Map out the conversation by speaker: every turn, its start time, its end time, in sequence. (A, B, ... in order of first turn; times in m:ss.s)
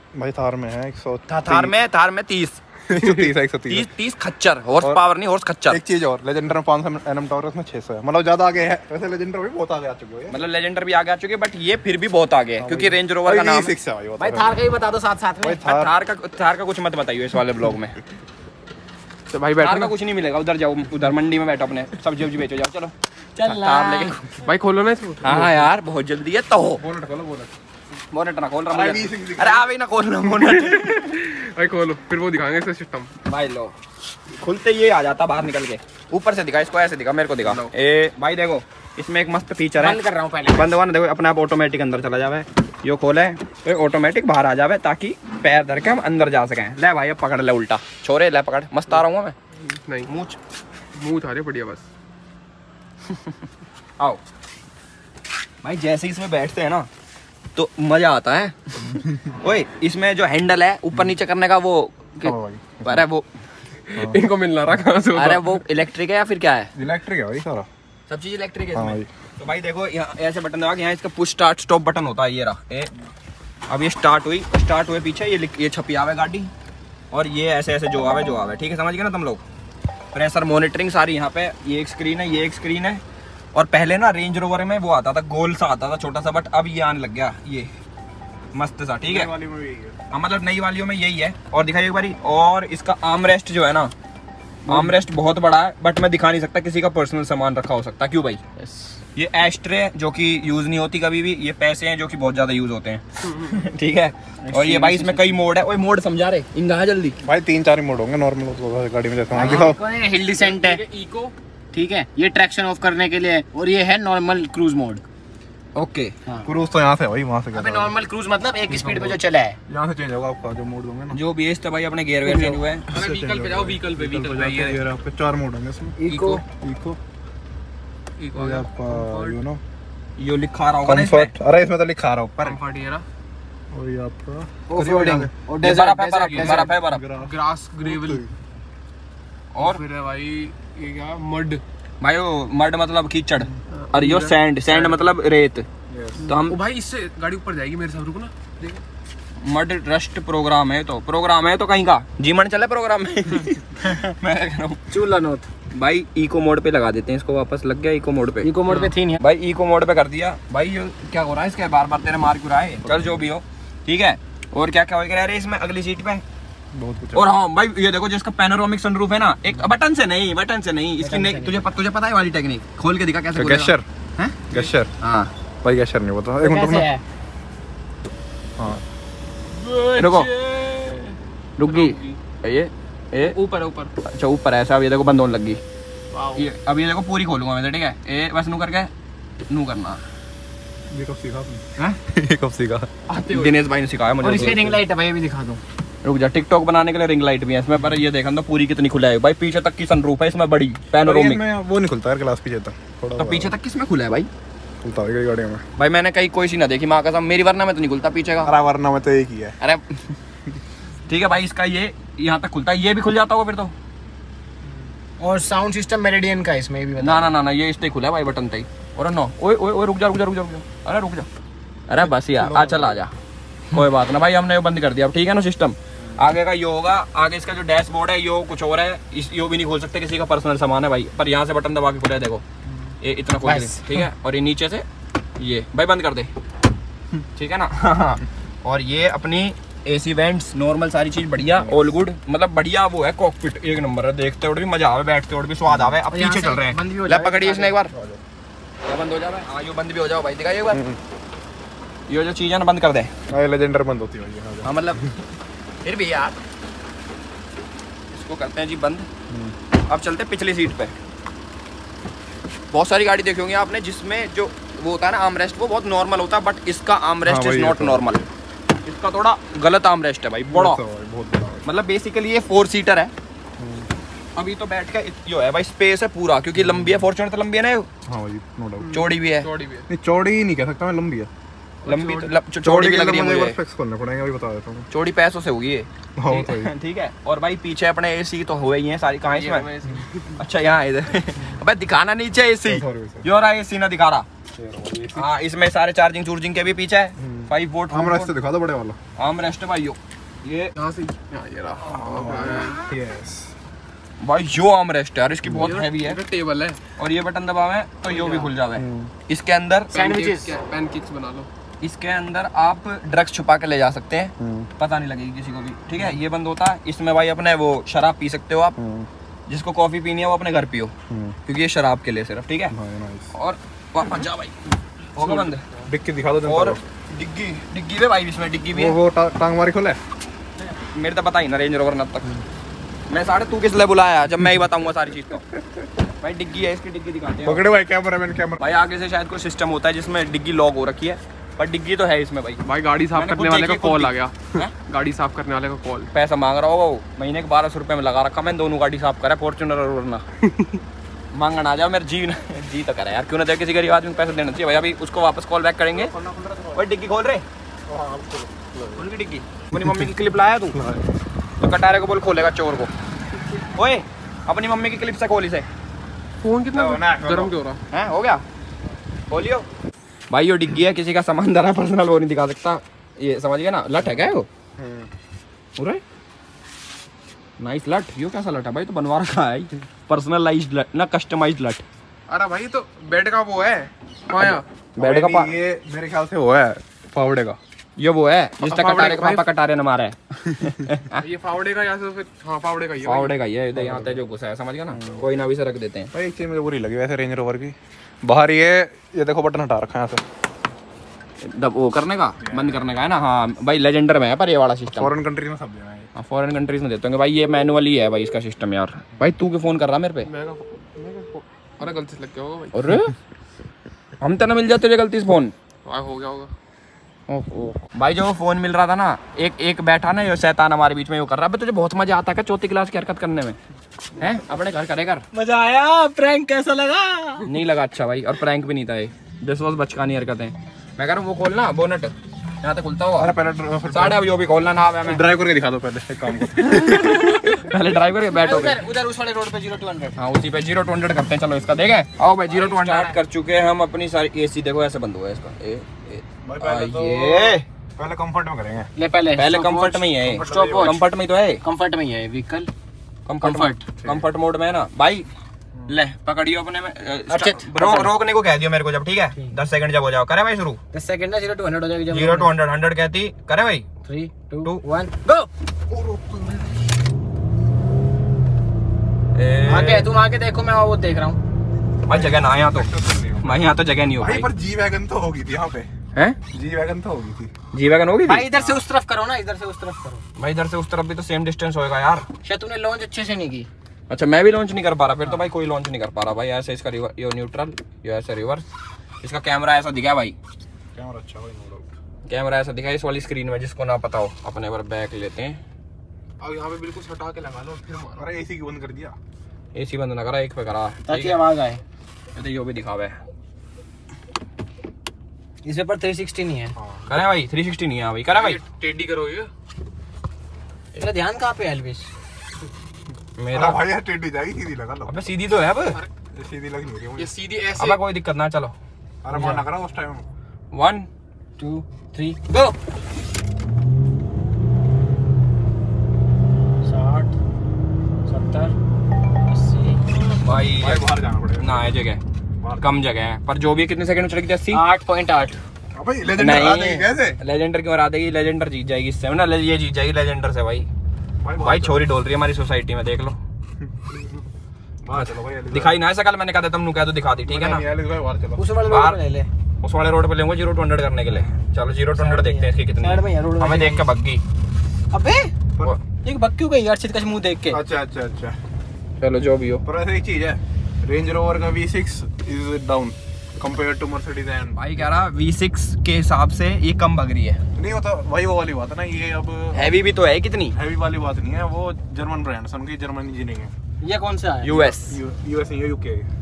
0:00.1-0:01.8 A
0:01.3-0:02.6 B
0:02.9-0:03.9 A
0:03.7-0:05.8 B
0:05.7-0:10.4 A
0:10.3-0:13.7 B
0:12.6-0:14.6 A
0:14.2-0:15.6 C
0:15.4-0:15.9 A
0:15.6-0:18.0 B
0:19.3-0:19.9 D
0:19.6-0:24.2 B
0:23.4-0:24.3 C
0:24.4-0:25.6 D
0:25.2-0:26.8 B
0:26.8-0:27.5 A
0:28.1-0:31.2 B
0:28.7-0:29.7 A
0:30.6-0:33.1 D
0:33.3-0:33.8 B
0:34.4-0:49.4 B
0:39.8-0:40.8 C
0:49.6-0:50.1 D
0:50.1-0:50.4 B
0:50.9-0:51.9 D
0:55.6-0:56.9 B
0:57.6-0:58.8 B
0:58.9-0:59.3 A
0:59.4-1:03.3 B
1:02.2-1:03.0 A
1:03.9-1:05.6 D
1:05.1-1:06.7 B
1:06.8-1:07.7 A
1:08.1-1:12.9 B
1:08.7-1:09.1 A
1:13.7-1:16.5 B
1:17.1-1:19.4 B
1:20.1-1:23.0 B
1:23.5-1:27.7 B
1:28.5-1:29.3 B
1:29.0-1:30.0 A
1:30.1-1:33.9 B
1:34.7-1:38.4 B
1:39.2-1:47.2 B
1:44.4-1:45.3 C
1:47.2-1:49.8 A
1:49.3-1:50.8 C
1:50.3-1:51.3 D
1:51.7-1:55.0 C
1:55.8-1:56.1 B
1:56.4-1:57.9 A
1:57.5-1:59.6 C
1:58.7-2:01.2 A
2:01.1-2:02.9 B
2:02.2-2:04.8 D
2:02.9-2:07.0 A
2:06.0-2:06.4 C
2:06.1-2:06.4 B
2:08.2-2:09.3 D
2:08.3-2:09.6 A
2:10.2-2:11.3 B
2:10.8-2:12.6 A
2:12.4-2:13.0 D
2:13.7-2:15.3 A
2:14.7-2:16.7 C
2:15.6-2:17.0 B
2:16.4-2:18.3 D
2:16.7-2:18.3 A
2:19.6-2:19.8 B
2:19.6-2:21.6 D
2:22.0-2:25.7 B
2:23.7-2:25.1 D
2:25.9-2:26.2 A
2:26.3-2:28.8 D
2:26.3-2:26.6 B
2:29.4-2:34.8 B
2:33.9-2:34.1 C
2:34.9-2:35.5 C
2:35.7-2:46.2 B
2:38.4-2:39.2 C
2:42.8-2:43.2 A
2:46.7-2:47.3 A
2:47.1-2:55.3 B
2:51.0-2:51.7 C
2:53.4-2:53.9 A
2:54.5-2:54.9 A
2:55.6-2:56.9 A
2:56.4-2:57.0 C
2:58.6-2:58.8 A
2:59.5-3:02.2 D
3:00.0-3:00.3 B
3:01.6-3:03.4 B
3:03.2-3:03.9 D
3:04.0-3:05.6 B
3:06.1-3:06.5 D
3:06.4-3:08.9 B
3:09.5-3:10.0 B
3:10.9-3:12.9 A
3:13.1-3:13.6 D
3:13.2-3:14.8 B
3:14.2-3:15.6 C
3:16.0-3:21.4 B
3:21.0-3:23.6 A
3:23.2-3:24.3 B
3:24.8-3:25.6 A
3:25.8-3:28.5 B
3:28.4-3:29.6 A
3:29.6-3:30.0 B
3:31.1-3:33.7 B
3:35.2-3:37.3 C
3:37.0-3:41.3 B
3:41.9-3:43.1 B
3:41.9-3:43.1 A
3:43.7-3:52.4 B
3:52.7-3:52.9 A
3:53.0-3:54.9 B
3:53.4-3:54.0 C
3:55.4-3:56.3 B
3:57.4-4:07.9 B
4:01.5-4:01.8 A
4:05.7-4:06.0 A
4:06.1-4:07.8 C
4:07.9-4:08.2 A
4:08.8-4:10.8 B
4:10.7-4:11.0 A
4:12.1-4:13.1 B
4:13.3-4:15.1 A
4:14.6-4:15.1 B
4:15.8-4:16.4 B
4:18.1-4:19.1 B
4:19.3-4:19.6 A
4:19.9-4:20.9 B
4:22.7-4:28.2 B
4:27.2-4:28.3 A
4:28.8-4:30.8 B
4:30.5-4:31.7 A
4:31.6-4:33.1 B
4:33.6-4:33.9 A
4:34.4-4:37.9 B
4:36.6-4:37.0 A
4:38.1-4:39.0 A
4:38.8-4:39.9 D
4:38.9-4:39.5 B
4:39.9-4:41.3 A
4:41.8-4:42.3 D
4:41.9-4:43.6 B
4:42.6-4:44.9 A
4:44.9-4:49.7 B
4:46.2-4:46.7 A
4:49.3-4:50.4 D
4:50.4-4:54.3 B
4:52.6-4:53.3 A
4:54.5-4:55.3 A
4:55.1-4:58.3 B
4:57.2-4:59.0 A
4:59.2-5:00.7 B
5:00.8-5:02.8 D
5:01.9-5:03.5 A
5:04.2-5:06.2 B
5:05.4-5:05.8 A
5:05.6-5:06.8 D
5:07.0-5:09.9 B
5:08.0-5:08.5 D
5:08.8-5:09.1 A
5:09.9-5:11.5 D
5:09.9-5:10.5 C
5:11.8-5:18.8 B
5:14.4-5:14.7 A
5:18.8-5:19.1 A
5:19.5-5:20.9 B
5:21.1-5:21.4 A
5:21.5-5:22.8 B
5:22.7-5:23.3 A
5:23.3-5:24.6 B
5:25.2-5:25.6 B
5:25.9-5:26.8 A
5:26.4-5:29.0 B
5:28.7-5:30.0 A
5:30.9-5:32.3 B
5:33.1-5:35.4 B
5:35.5-5:35.9 A
5:36.2-5:37.7 B
5:37.4-5:38.6 A
5:38.6-5:42.6 B
5:42.6-5:46.1 D
5:43.1-5:44.7 B
5:46.1-5:50.2 B
5:50.4-5:50.8 D
5:51.3-5:56.1 B
5:55.9-5:56.9 A
5:56.8-5:57.4 B
5:57.9-5:59.0 A
5:59.0-6:00.8 B
5:59.7-6:00.1 A
6:00.7-6:01.0 A
6:01.6-6:02.9 B
6:03.8-6:05.7 B
6:06.4-6:07.8 D
6:06.7-6:07.5 A
6:07.9-6:08.4 B
6:09.3-6:09.7 B
6:10.3-6:14.5 B
6:14.8-6:15.1 A
6:15.8-6:16.0 B
6:17.6-6:21.8 B
6:22.3-6:24.6 D
6:24.4-6:25.6 B
6:25.0-6:27.6 A
6:28.0-6:31.2 B
6:28.6-6:29.5 D
6:31.2-6:33.4 D
6:33.0-6:36.1 B
6:33.8-6:34.2 A
6:34.9-6:35.3 A
6:36.1-6:40.2 A
6:41.4-6:45.2 B
6:42.4-6:42.8 A
6:44.9-6:46.1 A
6:46.2-6:50.3 B
6:50.2-6:52.8 D
6:52.7-6:53.2 B
6:54.2-6:55.5 B
6:55.8-6:56.5 D
6:57.3-7:03.6 B
7:04.2-7:05.3 B
7:05.3-7:07.5 C
7:07.4-7:13.4 B
7:13.2-7:14.3 A
7:13.9-7:15.3 B
7:15.0-7:17.6 A
7:16.6-7:18.8 B
7:18.3-7:20.2 C
7:20.2-7:27.7 B
7:22.5-7:23.2 C
7:26.4-7:28.9 A
7:29.0-7:31.0 C
7:29.4-7:31.6 B
7:30.2-7:31.0 A
7:31.6-7:32.7 C
7:33.3-7:35.3 B
7:33.4-7:33.9 C
7:34.0-7:34.3 A
7:35.9-7:40.8 B
7:37.3-7:38.1 C
7:40.9-7:42.5 C
7:42.1-7:43.9 B
7:44.0-7:45.5 C
7:45.9-7:46.7 A
7:49.4-7:50.1 B
7:49.7-7:51.4 C
7:52.1-7:54.5 B
7:52.1-7:55.9 A
7:56.5-7:57.5 A
7:57.7-7:58.5 B
7:58.3-8:00.2 C
7:58.5-7:58.8 A
8:00.4-8:02.3 B
8:02.4-8:03.7 C
8:04.1-8:08.7 B
8:09.2-8:10.4 B
8:11.0-8:11.9 A
8:12.3-8:15.6 B
8:16.4-8:18.3 D
8:18.2-8:19.2 A
8:19.7-8:21.4 B
8:21.1-8:21.8 C
8:22.4-8:23.2 B
8:25.6-8:26.8 C
8:26.8-8:27.1 A
8:27.1-8:28.6 B
8:28.3-8:29.5 D
8:31.0-8:32.1 C
8:33.4-8:33.8 B
8:33.5-8:35.2 A
8:35.1-8:36.0 B
8:36.4-8:37.3 A
8:37.2-8:38.0 D
8:37.8-8:38.8 B
8:39.2-8:40.3 A
8:39.3-8:39.6 C
8:40.7-8:41.1 B
8:41.6-8:42.7 C
8:46.8-8:47.4 C
8:48.3-8:48.7 C
8:49.5-8:50.1 C
8:50.4-8:51.1 B
8:50.4-8:51.8 A
8:51.6-8:52.2 B
8:52.6-8:52.9 A
8:52.8-8:54.8 B
8:54.7-8:55.6 C
8:56.0-8:57.4 A
8:56.3-9:00.9 B
9:01.4-9:02.0 A
9:01.6-9:03.4 B
9:05.0-9:06.0 A
9:05.1-9:07.9 B
9:07.5-9:08.8 A
9:08.6-9:09.5 C
9:08.8-9:09.2 B
9:09.8-9:14.4 B
9:12.1-9:14.1 C
9:15.1-9:15.5 C
9:16.2-9:17.8 C
9:17.7-9:18.6 A
9:19.2-9:19.8 B
9:19.8-9:25.1 A
9:24.8-9:27.6 B
9:27.8-9:29.9 A
9:29.7-9:30.8 B
9:30.7-9:33.7 A
9:34.0-9:35.0 C
9:34.6-9:35.2 B
9:35.0-9:36.3 A